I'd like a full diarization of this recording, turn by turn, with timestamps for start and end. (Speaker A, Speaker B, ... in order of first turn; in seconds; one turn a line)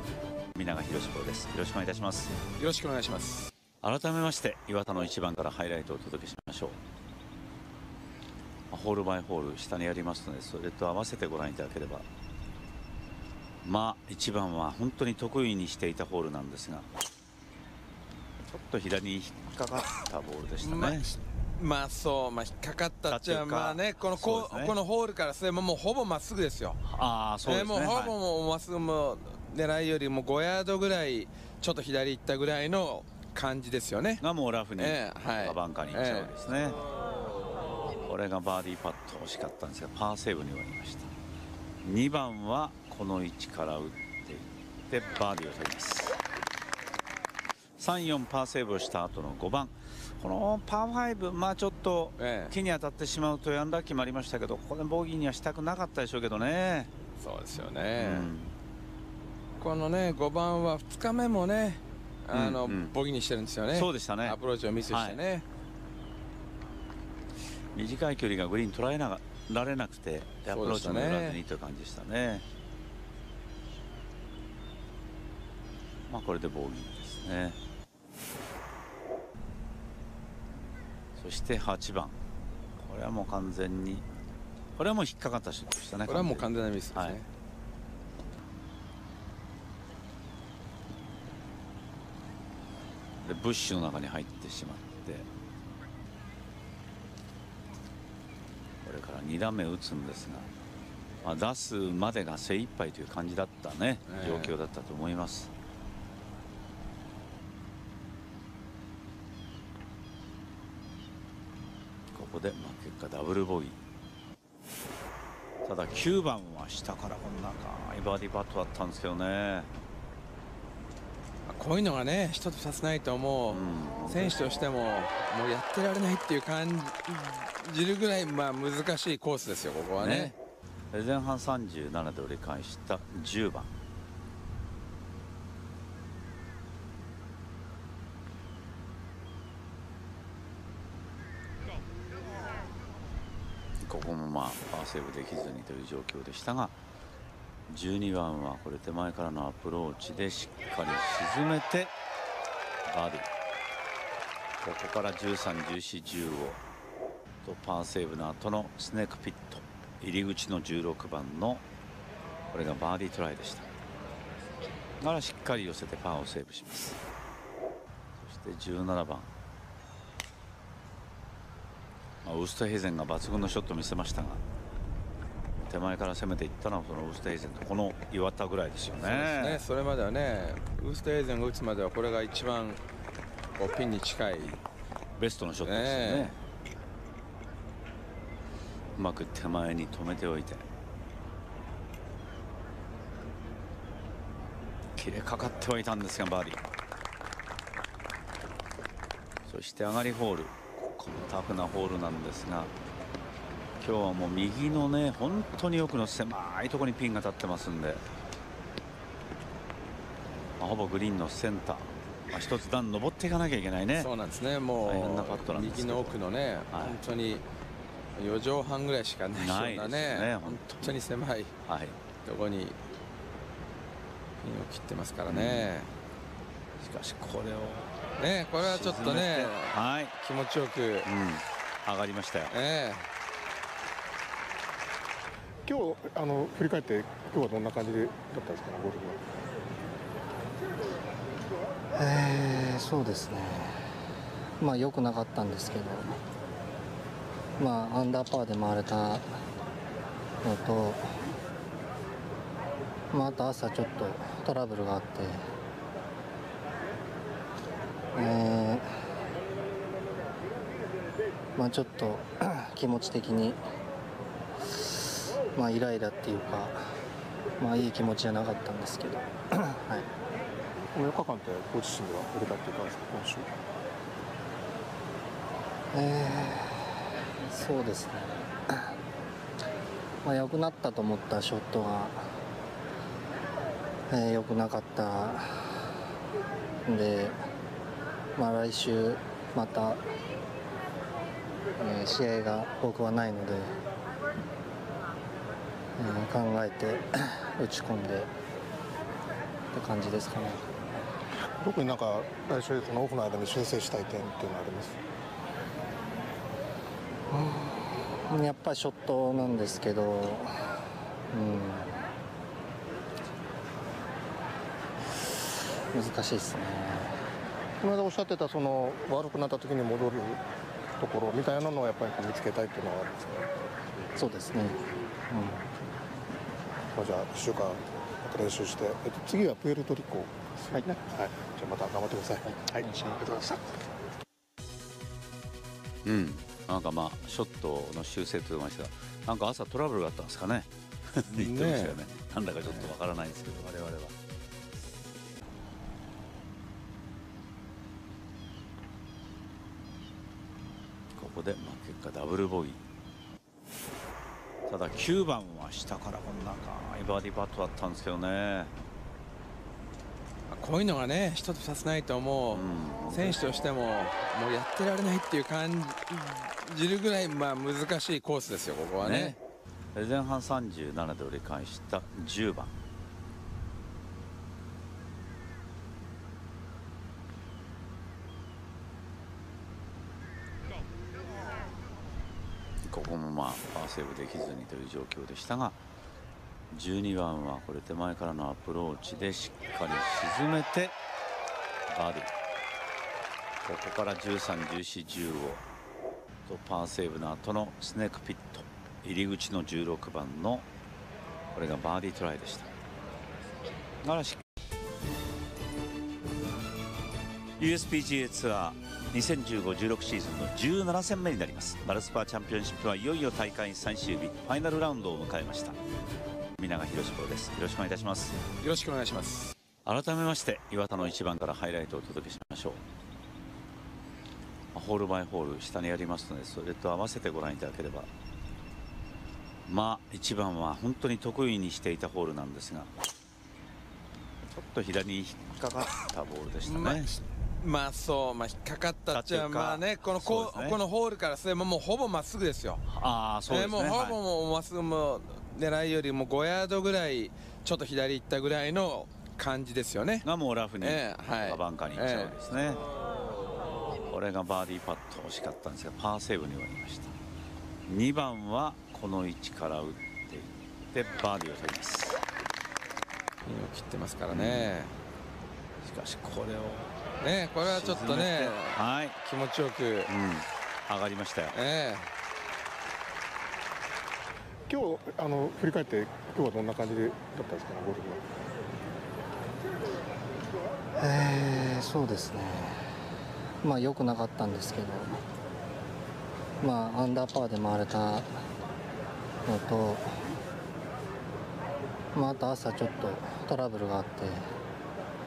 Speaker A: 0.6-2.3
Speaker B: 2.6-3.5
Speaker A: 3.8-6.8
Speaker A: 8.7-12.1
Speaker A: 13.6-16.9
Speaker A: 18.5-21.1
Speaker B: 20.6-26.8
Speaker A: 23.1-24.8
Speaker A: 26.9-28.1
Speaker B: 27.4-34.2
Speaker A: 34.2-36.8
Speaker B: 34.8-36.3
Speaker A: 38.0-41.1
Speaker A: 41.8-46.1
Speaker A: 47.8-56.9
Speaker B: 52.2-52.5
Speaker B: 57.2-58.3
Speaker A: 58.0-58.5
Speaker B: 59.6-65.5
Speaker A: 62.3-62.9
Speaker A: 63.7-64.4
Speaker A: 64.9-65.2
Speaker A: 67.7-72.5
Speaker B: 70.5-71.4
Speaker A: 76.1-77.6
Speaker A: 81.2-82.2
Speaker A: 82.8-84.1
Speaker A: 84.8-87.2
Speaker B: 86.1-87.3
Speaker A: 93.2-95.3
Speaker A: 98.8-100.5
Speaker A: 101.2-105.5
Speaker B: 104.1-104.5
Speaker A: 112.1-113.8
Speaker A: 115.7-119.7
Speaker B: 121.5-130.3
Speaker A: 123.5-124.4
Speaker A: 130.0-130.3
Speaker A: 130.9-133.7
Speaker A: 143.8-146.7
Speaker A: 147.7-151.9
Speaker A: 152.9-153.3
Speaker A: 154.6-156.6
Speaker A: 157.4-161.6
Speaker A: 162.5-163.7
Speaker A: 165.0-167.0
Speaker A: 168.2-169.3
Speaker A: 172.2-174.4
Speaker A: 175.7-179.6
Speaker B: 179.0-182.8
Speaker B: 183.6-184.6
Speaker A: 185.2-186.3
Speaker B: 185.6-186.4
Speaker A: 189.0-190.6
Speaker A: 195.0-196.6
Speaker A: 199.5-202.7
Speaker A: 203.8-208.0
Speaker A: 210.6-214.1
Speaker B: 213.9-217.4
Speaker A: 214.8-216.2
Speaker A: 216.7-217.0
Speaker B: 218.2-221.5
Speaker A: 219.3-221.0
Speaker A: 221.7-222.0
Speaker B: 222.2-222.8
Speaker B: 224.4-225.9
Speaker A: 225.3-225.7
Speaker A: 226.8-227.9
Speaker B: 228.2-231.1
Speaker A: 228.6-230.1
Speaker A: 231.0-232.5
Speaker B: 232.5-233.1
Speaker C: 235.7-239.2
Speaker D: 241.9-243.7
Speaker D: 244.6-246.1
Speaker D: 247.6-249.3
Speaker D: 250.4-251.1
Speaker D: 253.1-255.5
Speaker D: 258.1-258.9
Speaker D: 261.6-263.6
Speaker D: 265.5-266.9
Speaker D: 267.6-270.1
Speaker C: 270.9-273.5
Speaker D: 275.9-276.7
Speaker D: 277.4-278.9
Speaker D: 280.2-282.3
Speaker D: 284.1-285.6
Speaker D: 286.9-287.4
Speaker D: 288.4-290.0
Speaker D: 291.8-293.8
Speaker D: 296.0-298.3
Speaker D: 299.7-300.7
Speaker C: 301.6-305.0
Speaker D: 307.3-310.5
Speaker D: 311.3-312.0
Speaker D: 315.9-317.2
Speaker C: 317.8-320.4
Speaker C: 321.0-323.4
Speaker D: 324.1-325.6
Speaker C: 326.9-333.6
Speaker D: 332.7-333.2
Speaker A: 336.1-344.1
Speaker B: 341.3-342.0
Speaker B: 342.6-342.9
Speaker A: 351.2-352.8
Speaker A: 354.7-358.7
Speaker B: 360.5-369.4
Speaker A: 362.5-363.5
Speaker A: 369.0-369.4
Speaker A: 369.9-372.7
Speaker A: 382.9-385.8
Speaker A: 386.7-391.0
Speaker A: 391.9-392.3
Speaker A: 393.6-395.6
Speaker A: 396.5-400.7
Speaker A: 401.5-402.7
Speaker A: 404.0-404.4
Speaker A: 407.6-415.8
Speaker A: 416.6-418.4
Speaker B: 418.6-419.6
Speaker A: 419.9-422.8
Speaker A: 424.7-428.1
Speaker A: 429.7-432.9
Speaker A: 434.5-437.2
Speaker B: 436.6-442.9
Speaker A: 439.1-440.8
Speaker A: 442.9-444.2
Speaker B: 443.5-450.3
Speaker A: 450.2-452.8
Speaker B: 450.8-452.4
Speaker A: 454.1-457.1
Speaker A: 457.9-462.2
Speaker B: 463.4-464.9
Speaker A: 464.3-464.7
Speaker A: 465.8-466.9
Speaker B: 467.2-470.1
Speaker A: 467.6-469.2
Speaker A: 470.1-471.6
Speaker B: 471.5-472.1
Speaker C: 474.7-478.2
Speaker D: 481.0-482.8
Speaker D: 483.6-485.1
Speaker D: 486.6-488.4
Speaker D: 489.4-490.1
Speaker D: 492.1-494.5